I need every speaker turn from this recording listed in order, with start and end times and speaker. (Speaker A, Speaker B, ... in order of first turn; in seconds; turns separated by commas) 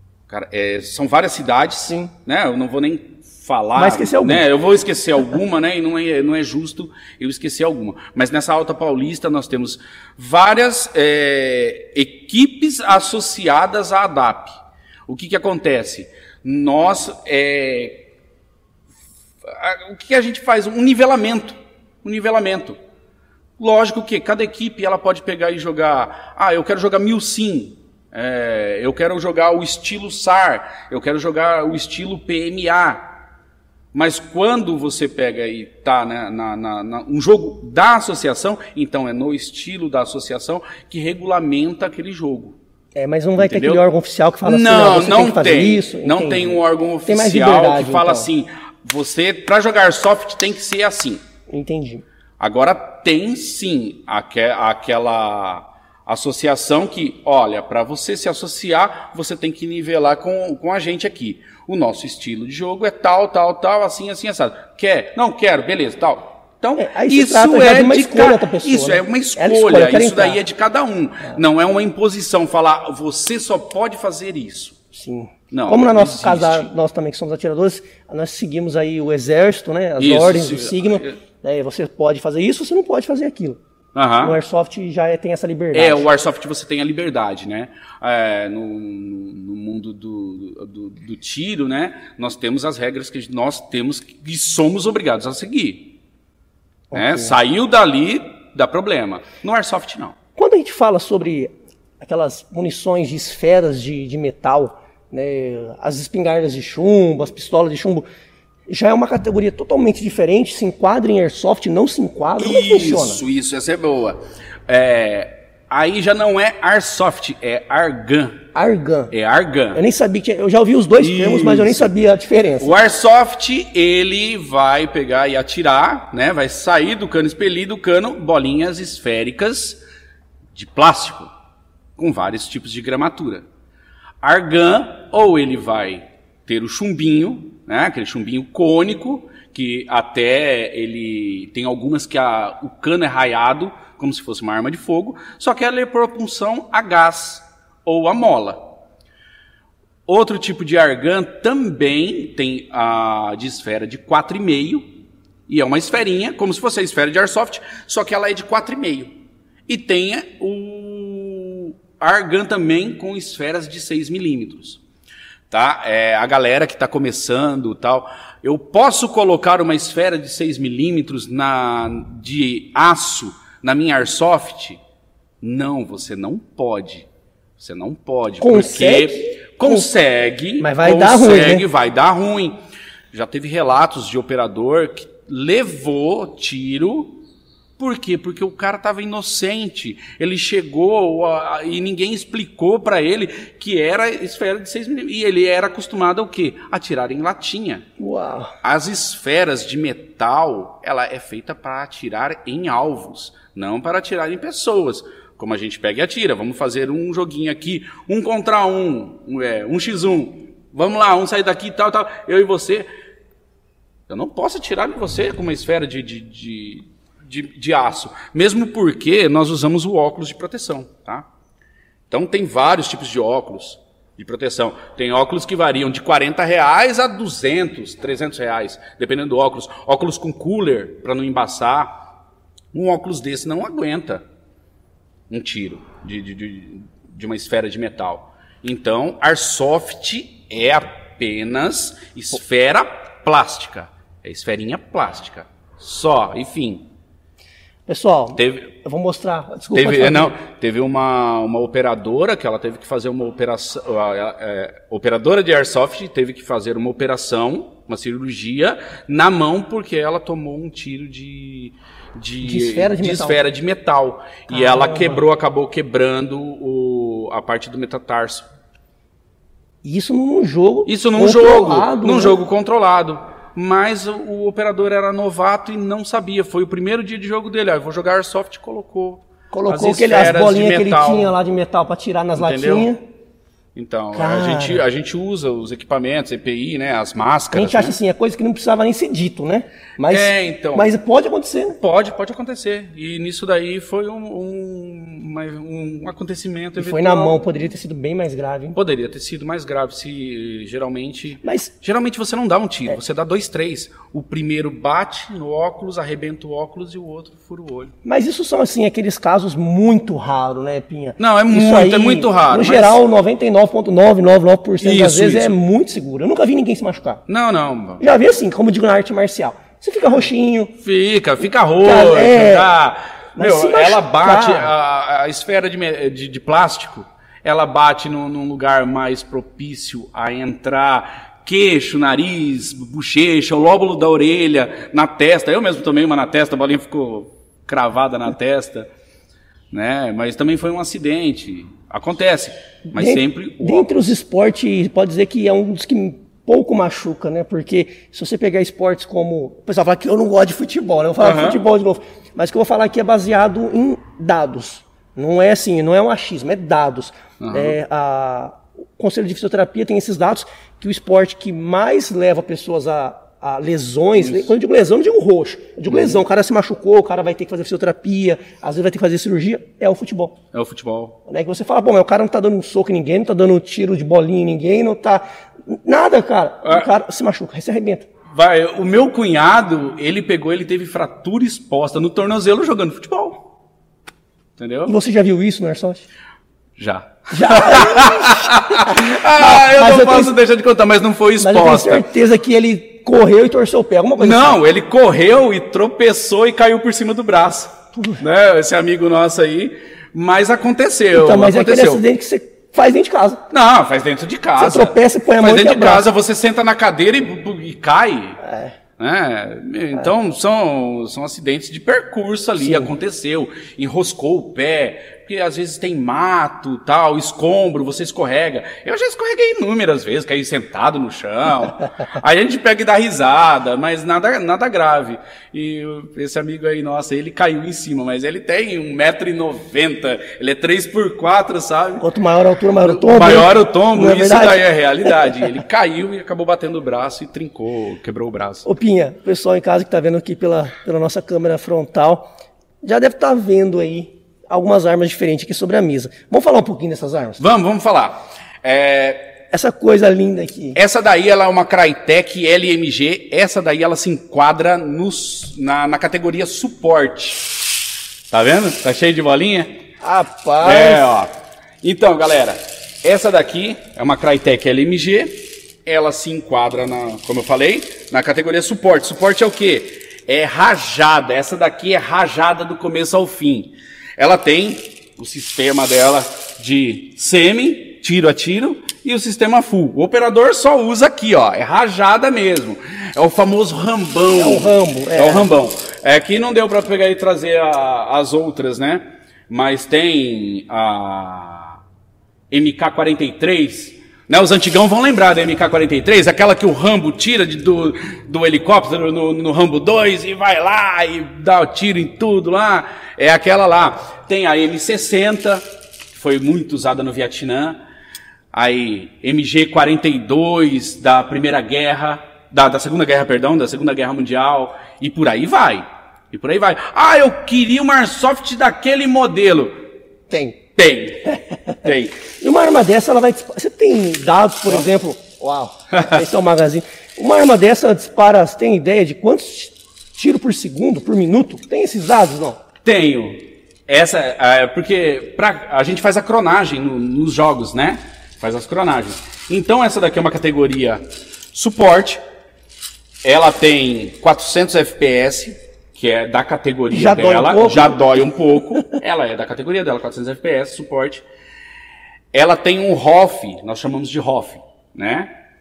Speaker A: 0.3-18.1, Speaker B: 1.9-2.1, Speaker B: 3.8-4.5, Speaker A: 19.4-22.8, Speaker A: 23.6-33.1, Speaker A: 33.9-42.6, Speaker B: 43.0-48.3, Speaker A: 43.4-43.8, Speaker A: 44.5-51.2, Speaker B: 51.5-52.0, Speaker A: 52.4-74.8, Speaker B: 66.8-70.4, Speaker B: 74.9-83.6, Speaker A: 75.5-76.7, Speaker A: 80.0-81.2, Speaker A: 84.0-84.4, Speaker B: 84.2-86.1, Speaker A: 85.7-96.0, Speaker B: 96.9-97.3, Speaker A: 96.9-100.2, Speaker B: 100.4-108.1, Speaker B: 108.7-113.2, Speaker A: 112.4-118.4, Speaker B: 118.5-119.1, Speaker A: 119.1-119.8, Speaker B: 119.7-122.8, Speaker A: 121.0-121.9, Speaker A: 122.6-129.8, Speaker A: 130.5-131.3, Speaker A: 132.0-133.4, Speaker A: 134.2-148.7, Speaker A: 150.1-154.9, Speaker A: 155.5-164.8, Speaker A: 165.5-174.8, Speaker A: 175.4-177.1, Speaker A: 177.6-182.6, Speaker B: 178.4-179.9, Speaker B: 180.6-181.7, Speaker A: 183.1-187.2, Speaker A: 187.8-197.8, Speaker B: 198.0-198.6, Speaker A: 198.6-212.9, Speaker A: 214.1-221.3, Speaker A: 222.1-232.0, Speaker A: 232.7-234.2, Speaker A: 235.3-246.9, Speaker B: 247.9-250.4, Speaker A: 248.4-248.7, Speaker A: 249.7-268.5, Speaker B: 262.4-263.4, Speaker B: 264.5-265.2, Speaker B: 269.8-272.4, Speaker A: 270.9-281.3, Speaker B: 279.5-283.0, Speaker A: 282.4-282.9, Speaker A: 283.8-288.0, Speaker B: 284.1-284.8, Speaker B: 287.5-291.8, Speaker A: 290.0-290.9, Speaker A: 291.8-297.4, Speaker B: 296.8-298.8, Speaker A: 298.8-307.9, Speaker B: 301.4-301.7, Speaker B: 308.1-317.2, Speaker A: 311.2-313.0, Speaker A: 314.8-315.6, Speaker A: 317.3-318.1, Speaker B: 318.0-320.8, Speaker A: 320.8-338.9, Speaker B: 321.8-322.7, Speaker B: 323.4-324.7, Speaker A: 339.7-344.1, Speaker B: 342.9-370.4, Speaker A: 351.2-351.6, Speaker A: 357.4-357.8, Speaker A: 364.2-364.5, Speaker A: 365.9-366.2, Speaker A: 370.5-371.2, Speaker B: 371.3-378.1, Speaker A: 376.6-376.9, Speaker A: 378.3-383.4, Speaker A: 384.6-384.9, Speaker B: 384.9-386.1, Speaker A: 386.8-392.1, Speaker B: 387.3-390.4, Speaker B: 391.4-394.6, Speaker A: 394.2-402.0, Speaker B: 397.9-398.2, Speaker B: 401.1-403.4, Speaker A: 403.5-408.4, Speaker B: 404.6-406.1, Speaker B: 408.4-408.8, Speaker A: 409.0-432.1, Speaker B: 412.6-412.9, Speaker B: 432.0-435.5, Speaker A: 432.8-438.7, Speaker B: 438.7-442.3, Speaker B: 442.8-447.4, Speaker A: 447.4-449.3, Speaker B: 449.5-450.8, Speaker A: 450.8-457.5, Speaker A: 458.3-459.8, Speaker B: 460.0-461.1, Speaker A: 460.6-461.3, Speaker A: 461.8-491.8, Speaker B: 484.4-485.5, Speaker A: 492.5-507.8, Speaker A: 508.5-519.8, Speaker B: 520.3-520.6, Speaker A: 520.8-522.2, Speaker B: 521.5-521.9, Speaker B: 522.4-532.6, Speaker A: 532.8-541.0, Speaker A: 541.5-542.2, Speaker A: 543.2-551.2, Speaker B: 546.9-548.0, Speaker A: 552.3-555.3